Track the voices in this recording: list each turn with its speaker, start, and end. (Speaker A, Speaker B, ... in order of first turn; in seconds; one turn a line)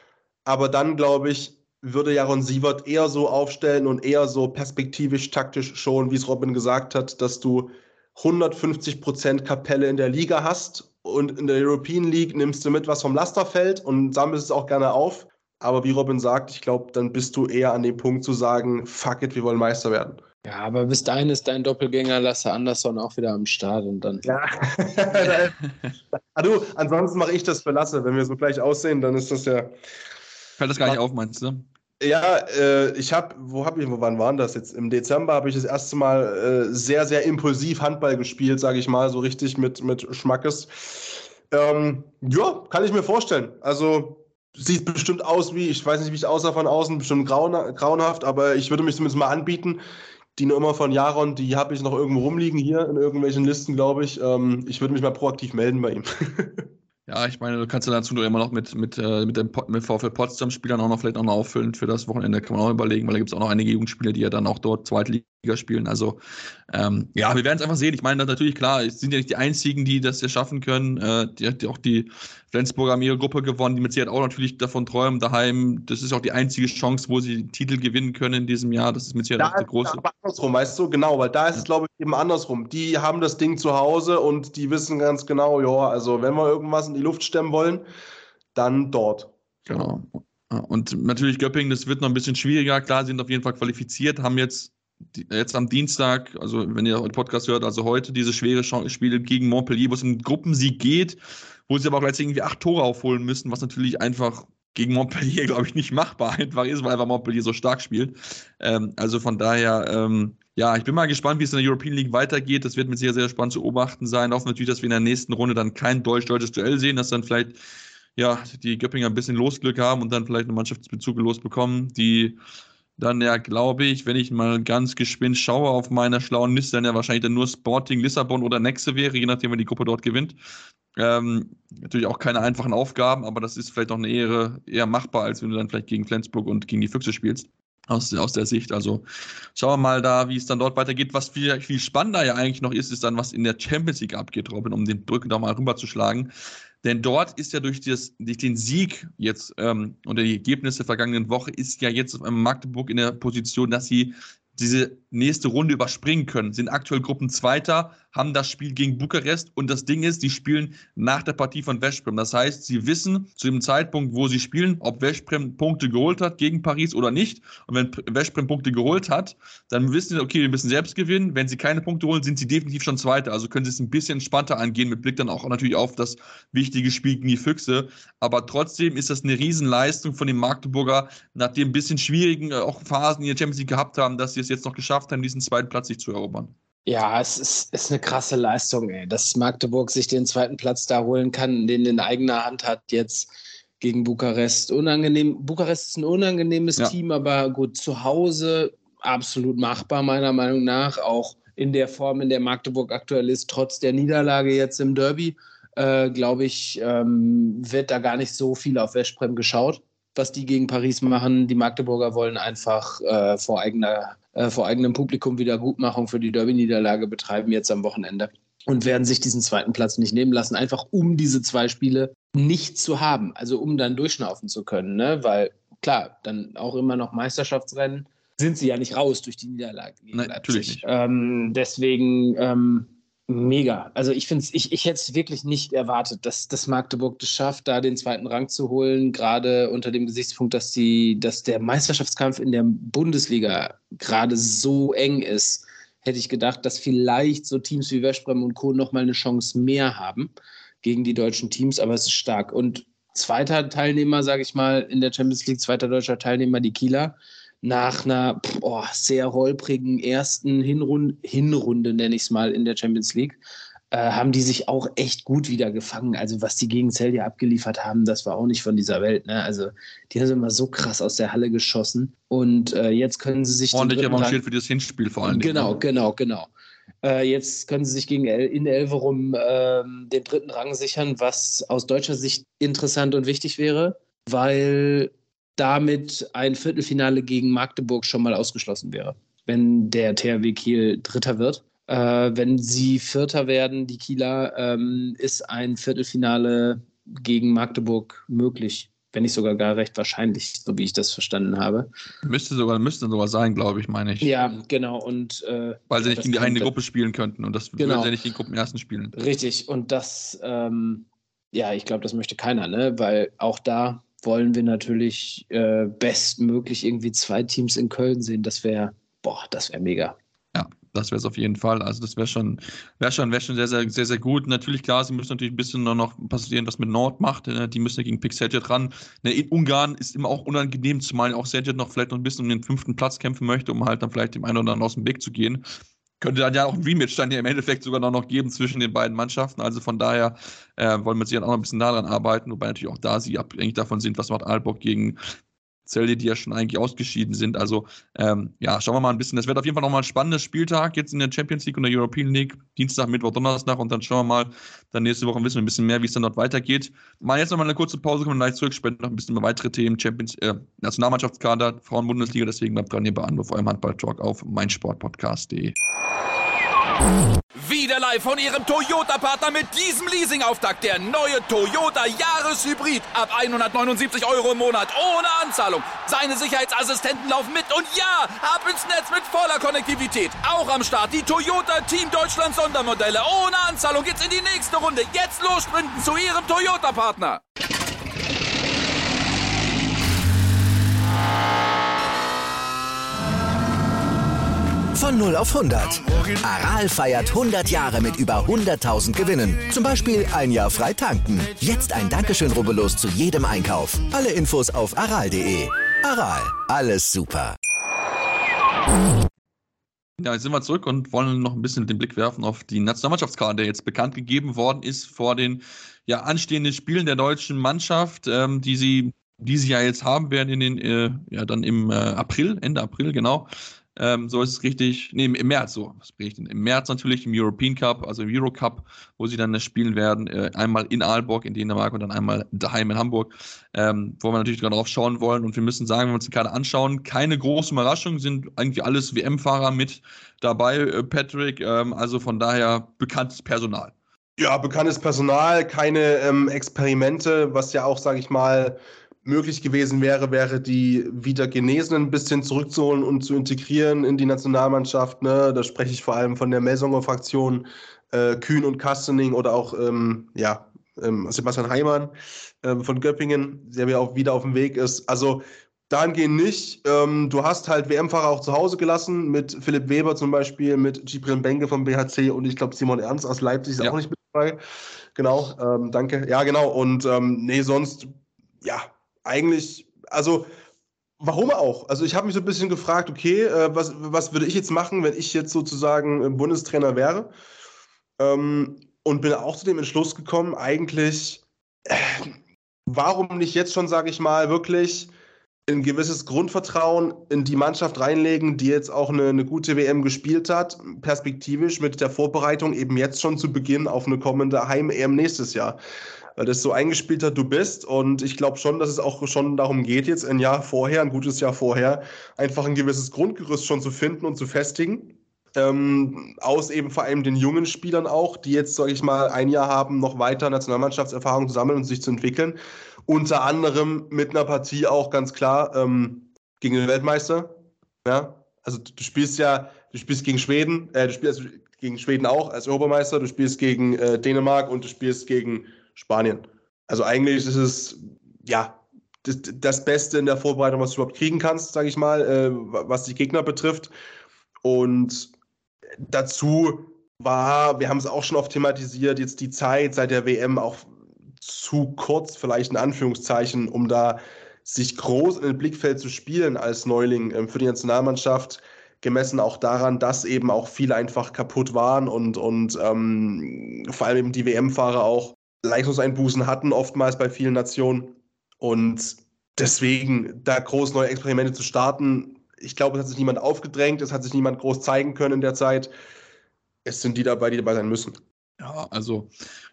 Speaker A: 0.5-20.2
Speaker B: 20.4-24.3
Speaker A: 24.2-25.6
Speaker A: 26.4-29.8
Speaker C: 30.6-31.6
Speaker A: 32.0-49.8
Speaker A: 50.4-56.7
Speaker C: 57.1-80.0
Speaker A: 79.4-87.8
Speaker A: 88.5-89.9
Speaker C: 89.7-117.6
Speaker C: 118.2-122.4
Speaker C: 123.0-130.4
Speaker C: 131.0-139.0
Speaker C: 139.6-146.3
Speaker C: 146.8-186.5
Speaker B: 186.9-250.3
Speaker C: 230.1-230.8
Speaker B: 250.8-263.4
Speaker B: 263.9-274.4
Speaker C: 273.7-275.8
Speaker B: 275.2-276.5
Speaker B: 277.0-301.9
Speaker C: 302.2-304.3
Speaker B: 304.2-306.7
Speaker C: 305.9-309.1
Speaker B: 307.8-308.1
Speaker B: 309.1-320.2
Speaker C: 320.5-335.6
Speaker C: 336.2-345.2
Speaker C: 345.9-365.8
Speaker D: 367.6-387.4
Speaker E: 394.9-407.6
Speaker C: 410.2-443.9
Speaker A: 444.4-474.6
Speaker A: 475.1-480.5
Speaker A: 481.2-487.3
Speaker A: 488.2-492.3
Speaker A: 492.9-495.1
Speaker A: 495.7-505.8
Speaker A: 506.4-543.9
Speaker A: 544.6-545.3
Speaker A: 546.1-550.9
Speaker A: 551.4-575.9
Speaker A: 576.9-578.2
Speaker C: 578.6-579.3